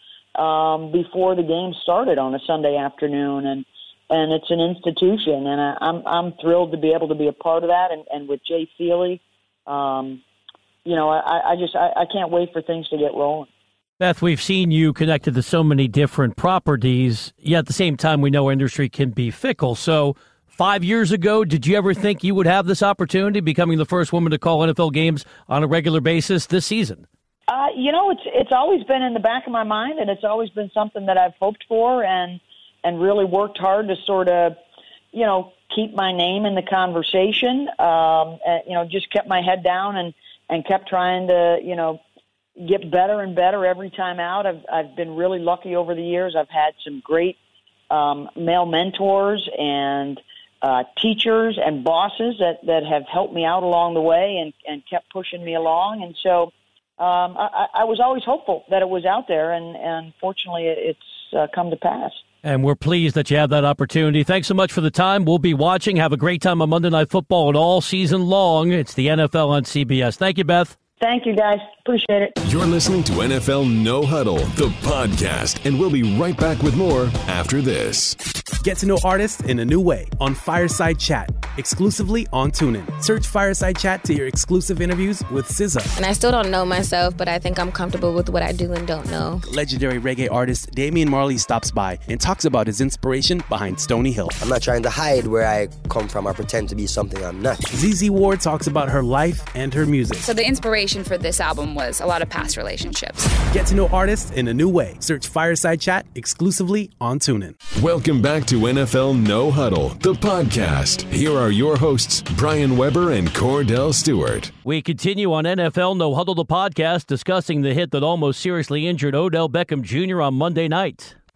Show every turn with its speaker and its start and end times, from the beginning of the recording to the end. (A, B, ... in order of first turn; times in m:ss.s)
0:00.4-0:10.2 A
0:10.8-0:13.5 A
0:14.0-0:27.1 B
0:27.5-0:34.6 A
0:35.1-0:42.0 A
0:42.6-0:47.4 A
0:47.9-1:02.2 A
1:02.4-1:10.8 B
1:11.0-1:12.4 A
1:12.4-1:18.2 C
1:18.6-1:25.9 D
1:26.0-1:29.4 E
1:29.4-1:34.4 D
1:34.4-1:37.7 F
1:37.7-1:40.3 D
1:40.2-1:43.3 G
1:43.5-1:47.6 D
1:47.8-1:54.5 C
1:54.6-2:01.2 B